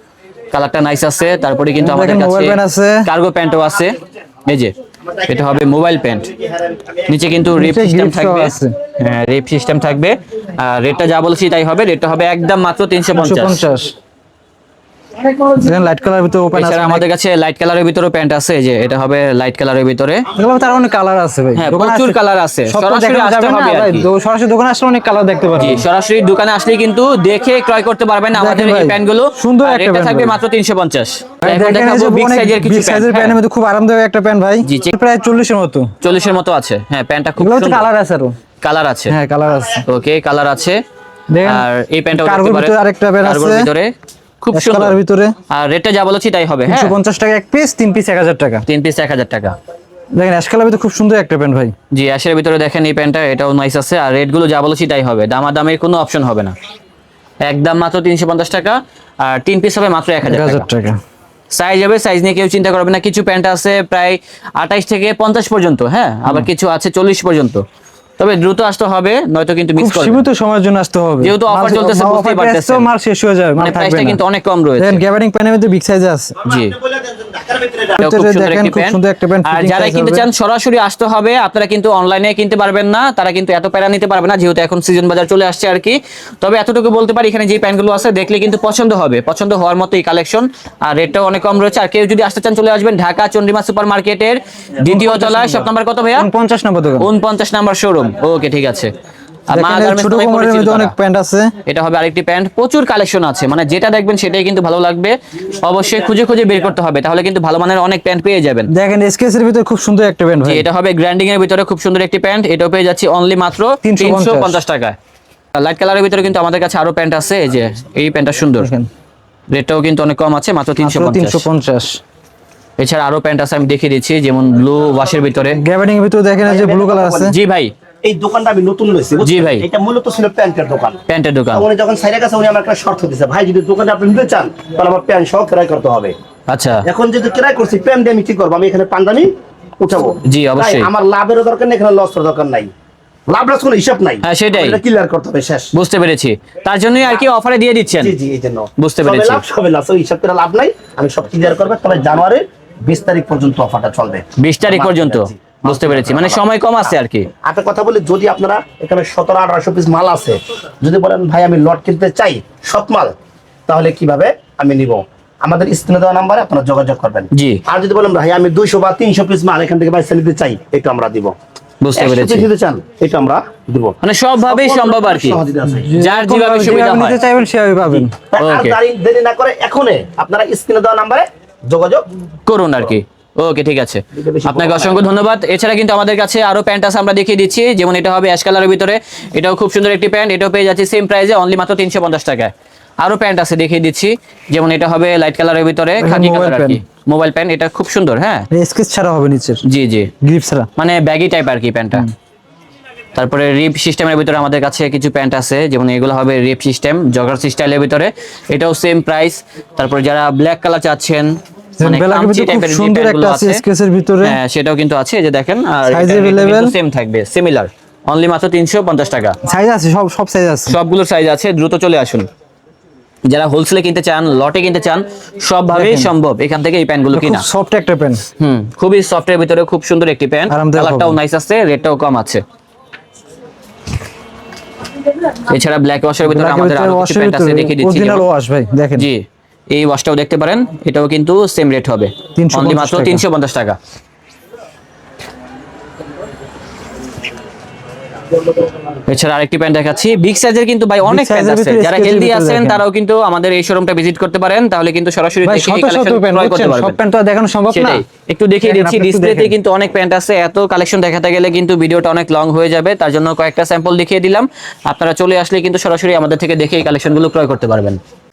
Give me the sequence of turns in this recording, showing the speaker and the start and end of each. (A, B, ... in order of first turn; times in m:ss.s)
0:00.5-0:04.7 A
0:01.8-0:03.1 B
0:05.1-0:05.6 C
0:05.2-0:06.3 A
0:06.2-0:07.1 C
0:07.1-0:13.6 A
0:07.4-0:08.7 B
0:13.1-0:14.0 B
0:15.3-0:17.0 B
0:16.5-0:20.2 A
0:20.4-0:25.8 B
0:21.6-0:24.1 A
0:25.6-0:33.4 A
0:28.3-0:30.4 B
0:31.4-0:35.9 B
0:34.6-0:34.9 A
0:36.0-0:37.9 A
0:37.4-0:38.4 B
0:38.6-0:39.2 A
0:39.1-0:39.8 B
0:39.9-0:40.8 A
0:41.3-0:43.7 B
0:41.4-0:45.0 A
0:44.5-0:45.3 B
0:45.5-0:46.9 A
0:46.7-0:48.6 B
0:48.6-0:49.6 A
0:50.2-0:51.7 B
0:51.9-0:56.5 A
0:57.4-1:00.6 A
1:00.2-1:01.0 B
1:01.5-1:07.6 A
1:08.2-1:10.2 A
1:09.8-1:14.2 B
1:11.2-1:12.9 A
1:13.6-1:15.0 A
1:14.8-1:16.4 B
1:16.4-1:16.7 A
1:16.6-1:18.0 C
1:18.0-1:20.2 B
1:18.0-1:36.3 A
1:34.8-1:37.1 B
1:37.0-1:38.9 A
1:39.5-1:40.9 A
1:39.5-1:41.5 B
1:41.6-1:48.7 A
1:48.7-1:50.7 B
1:50.4-1:55.0 A
1:53.8-1:54.6 B
1:55.5-1:58.7 A
1:58.6-1:58.9 B
1:59.5-2:01.4 A
2:00.8-2:02.0 B
2:02.8-2:05.6 A
2:05.6-2:07.3 B
2:06.4-2:07.3 C
2:07.3-2:07.7 A
2:08.0-2:11.0 C
2:09.2-2:09.6 A
2:11.1-2:11.7 A
2:11.5-2:16.1 C
2:16.5-2:16.8 A
2:16.8-2:22.7 C
2:20.2-2:20.9 A
2:23.3-2:25.7 C
2:24.2-2:24.8 A
2:25.7-2:28.1 A
2:28.0-2:43.1 C
2:28.8-2:29.4 A
2:34.4-2:37.3 A
2:43.7-2:51.3 C
2:47.3-2:47.6 A
2:51.8-2:52.5 A
2:52.0-2:55.9 C
2:54.0-2:55.4 A
2:55.7-2:58.1 B
2:56.0-2:57.2 A
2:58.0-2:58.8 A
2:58.3-3:02.0 C
3:02.4-3:18.5 A
3:04.1-3:05.1 C
3:16.0-3:16.8 B
3:18.5-3:19.6 B
3:19.6-3:20.1 A
3:20.2-3:20.7 B
3:20.8-3:22.0 A
3:23.1-3:33.6 A
3:31.8-3:34.4 B
3:34.2-3:39.4 A
3:35.9-3:36.7 B
3:39.4-3:40.8 B
3:40.7-3:42.3 A
3:43.3-3:47.4 A
3:45.7-3:46.1 B
3:47.1-3:48.2 B
3:48.4-3:52.4 A
3:50.5-3:51.2 B
3:55.4-3:58.2 A
3:56.2-3:59.1 B
3:59.0-4:03.8 A
4:02.4-4:03.2 B
4:09.1-4:17.0 A
4:11.0-4:12.8 B
4:15.4-4:18.0 B
4:17.7-4:28.0 A
4:18.6-4:19.5 B